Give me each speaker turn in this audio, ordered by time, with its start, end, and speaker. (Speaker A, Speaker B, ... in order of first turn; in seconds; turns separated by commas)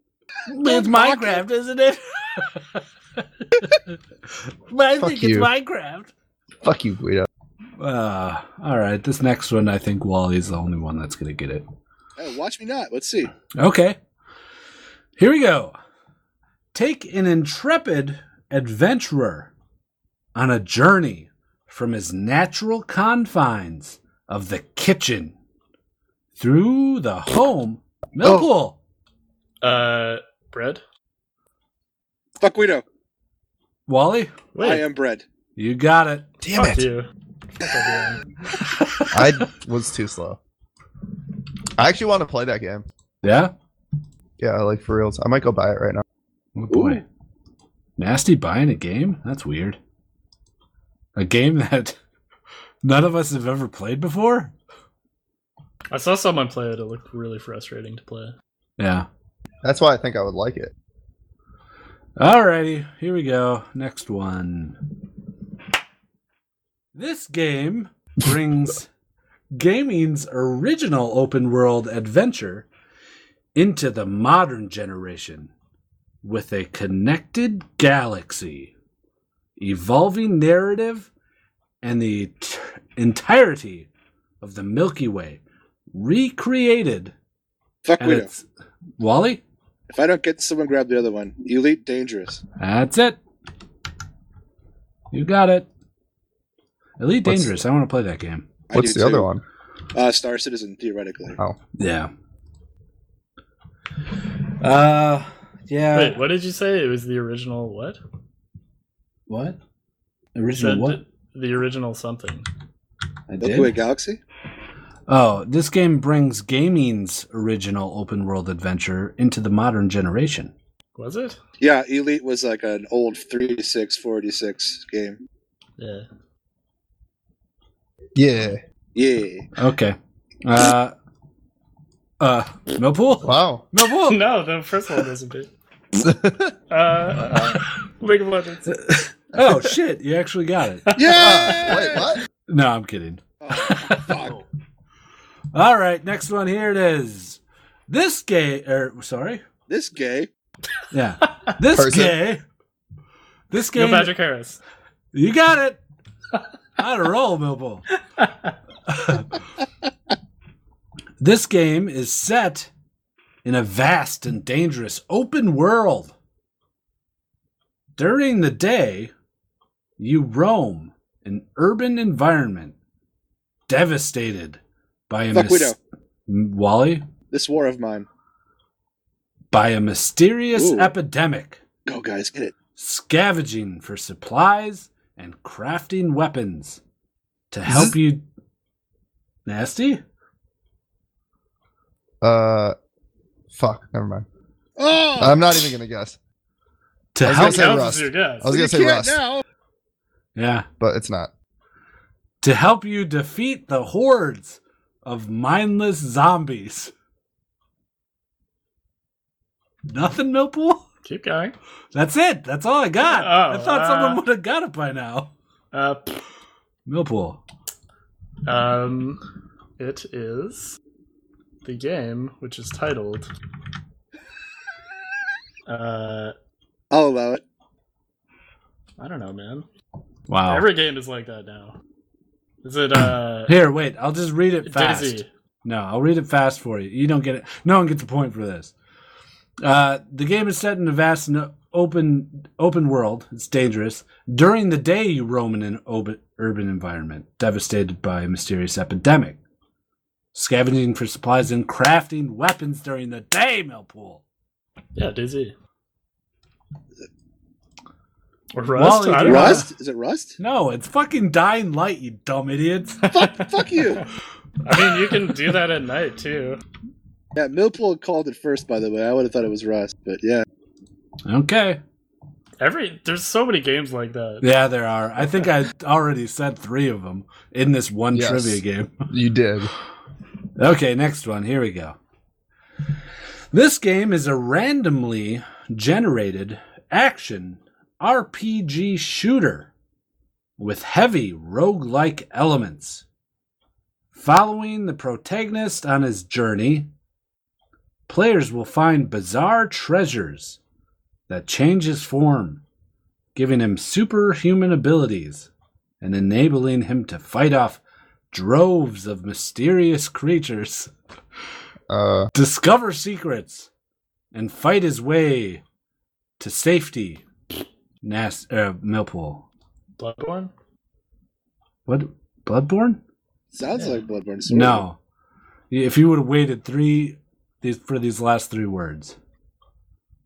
Speaker A: 0.5-6.1, Speaker B: 0.6-1.4, Speaker C: 5.0-5.5, Speaker C: 6.6-7.3, Speaker A: 7.8-11.7, Speaker B: 12.2-13.3, Speaker A: 13.6-14.0, Speaker A: 15.2-15.8, Speaker A: 16.7-19.5, Speaker A: 20.4-25.3, Speaker A: 26.4-28.8, Speaker C: 28.2-28.5, Speaker D: 29.6-30.8, Speaker B: 32.4-32.8, Speaker A: 33.9-34.3, Speaker D: 34.5-34.8, Speaker B: 34.6-35.2, Speaker A: 35.6-36.3, Speaker C: 36.4-36.9, Speaker D: 36.5-37.1, Speaker D: 37.6-38.3, Speaker C: 39.1-40.4, Speaker C: 41.8-42.9, Speaker A: 43.2-43.5, Speaker C: 44.4-46.0, Speaker A: 46.6-47.0, Speaker B: 46.7-47.0, Speaker A: 48.0-49.8, Speaker A: 51.2-52.0, Speaker A: 52.8-54.5, Speaker D: 55.9-58.4, Speaker A: 58.8-59.1, Speaker C: 59.6-60.7, Speaker A: 62.2-64.8, Speaker A: 67.0-68.9, Speaker A: 69.5-72.7, Speaker A: 73.5-75.5, Speaker A: 76.2-78.7, Speaker A: 79.6-81.1, Speaker A: 81.8-83.9, Speaker A: 84.4-87.1, Speaker B: 87.8-88.3, Speaker A: 88.0-88.5, Speaker A: 89.0-89.4, Speaker B: 89.9-92.4, Speaker A: 92.6-93.2, Speaker A: 95.1-95.7, Speaker A: 97.0-98.5, Speaker C: 97.2-97.5, Speaker B: 98.7-99.3, Speaker C: 98.7-99.4, Speaker B: 99.9-101.4, Speaker A: 101.8-102.1, Speaker A: 104.6-106.2, Speaker D: 105.9-108.0, Speaker A: 109.3-109.6, Speaker A: 110.3-111.0, Speaker D: 110.6-112.5, Speaker A: 113.3-113.8, Speaker B: 113.4-114.2, Speaker A: 115.1-120.5, Speaker D: 121.0-121.4, Speaker B: 121.6-125.2, Speaker D: 125.8-126.1, Speaker C: 128.2-128.6, Speaker B: 129.0-129.5, Speaker A: 129.6-130.9, Speaker A: 132.2-134.2, Speaker C: 133.2-133.6, Speaker D: 134.1-135.5, Speaker C: 135.9-136.6, Speaker D: 136.7-138.8, Speaker A: 138.7-140.9, Speaker D: 140.9-141.8, Speaker B: 141.0-142.1, Speaker C: 141.2-142.2, Speaker A: 142.5-144.1, Speaker B: 143.4-144.4, Speaker A: 145.5-149.4, Speaker B: 149.7-150.3, Speaker A: 150.9-152.4, Speaker C: 151.7-152.2, Speaker A: 153.5-154.2, Speaker D: 153.8-154.6, Speaker A: 155.1-155.8, Speaker A: 156.8-157.8, Speaker D: 158.2-158.5, Speaker A: 158.9-159.3, Speaker A: 161.2-162.7, Speaker A: 163.4-166.1, Speaker A: 168.0-169.1, Speaker A: 170.0-172.8, Speaker A: 173.7-175.8, Speaker B: 175.3-175.8, Speaker A: 176.3-177.1, Speaker B: 177.3-178.1, Speaker A: 179.5-181.6, Speaker B: 180.6-180.9, Speaker B: 181.9-182.5, Speaker A: 182.8-186.8, Speaker A: 187.5-188.2, Speaker C: 187.7-188.0, Speaker A: 189.5-190.0, Speaker C: 192.2-192.8, Speaker C: 193.5-194.3, Speaker B: 194.8-195.7, Speaker C: 195.2-196.2, Speaker A: 197.1-197.9, Speaker C: 197.2-199.2, Speaker D: 197.3-198.5, Speaker B: 198.4-199.4, Speaker A: 200.4-200.7, Speaker C: 200.8-201.3, Speaker A: 202.4-206.9, Speaker A: 209.9-210.8, Speaker D: 211.0-211.6, Speaker A: 211.9-215.3, Speaker D: 213.0-214.2, Speaker D: 215.7-216.2, Speaker A: 216.9-217.4, Speaker D: 218.5-219.2, Speaker D: 219.8-220.8, Speaker D: 221.6-223.3, Speaker D: 225.7-226.3, Speaker B: 226.9-227.4, Speaker D: 229.0-229.7, Speaker A: 230.3-230.7, Speaker D: 230.5-231.8, Speaker D: 232.6-233.6, Speaker A: 233.5-238.7, Speaker D: 234.7-235.3, Speaker A: 239.6-249.4, Speaker A: 250.3-254.2, Speaker D: 254.9-255.5, Speaker D: 258.5-259.6, Speaker A: 258.8-259.7, Speaker B: 259.2-260.4, Speaker A: 260.4-263.1, Speaker B: 263.1-264.0, Speaker D: 264.6-266.6, Speaker B: 267.4-270.4, Speaker A: 271.3-271.8, Speaker D: 272.6-274.4, Speaker A: 274.4-279.1, Speaker C: 278.1-279.7, Speaker A: 280.6-282.0, Speaker A: 283.5-289.7, Speaker A: 290.6-293.0, Speaker A: 294.1-296.9, Speaker A: 298.1-300.6, Speaker A: 301.3-302.6, Speaker A: 303.4-305.5, Speaker A: 306.0-310.9, Speaker C: 311.9-312.3, Speaker A: 312.3-313.7, Speaker A: 314.3-315.6, Speaker A: 316.4-317.2, Speaker A: 318.0-319.5, Speaker D: 320.0-320.5, Speaker A: 321.9-323.0, Speaker B: 323.5-324.8, Speaker D: 323.8-324.0, Speaker A: 324.5-325.0, Speaker A: 325.7-329.2